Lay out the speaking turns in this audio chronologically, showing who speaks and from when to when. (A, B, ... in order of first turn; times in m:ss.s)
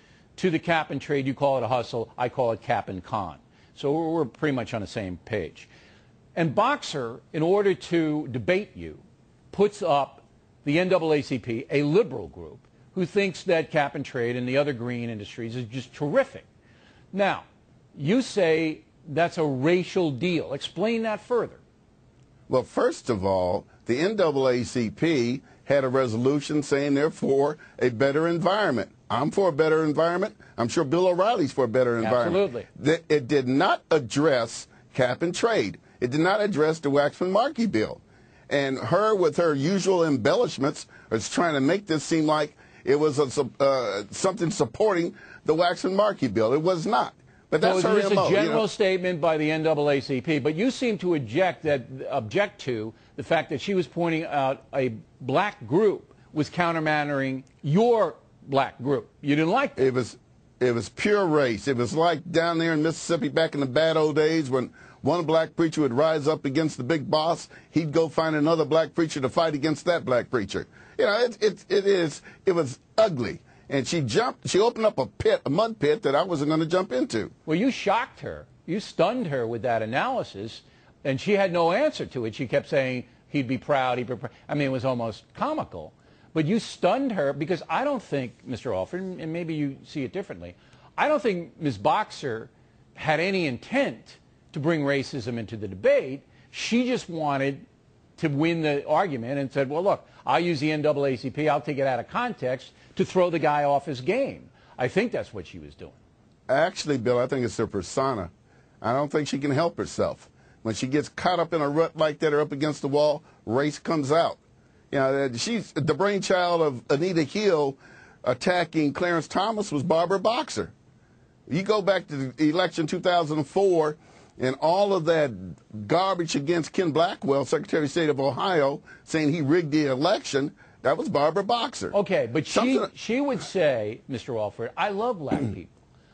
0:00.4-0:05.7 A
0:06.4-0:16.5 A
0:17.1-0:21.6 A
0:22.5-0:48.6 B
0:32.0-0:32.7 A
0:47.6-0:59.8 A
0:59.8-1:17.3 B
1:17.5-1:37.6 A
1:38.2-1:46.0 A
1:46.5-1:48.3 B
1:48.8-1:54.4 B
1:54.9-2:00.7 B
2:01.5-2:12.0 B
2:11.9-2:15.7 A
2:12.5-2:12.9 B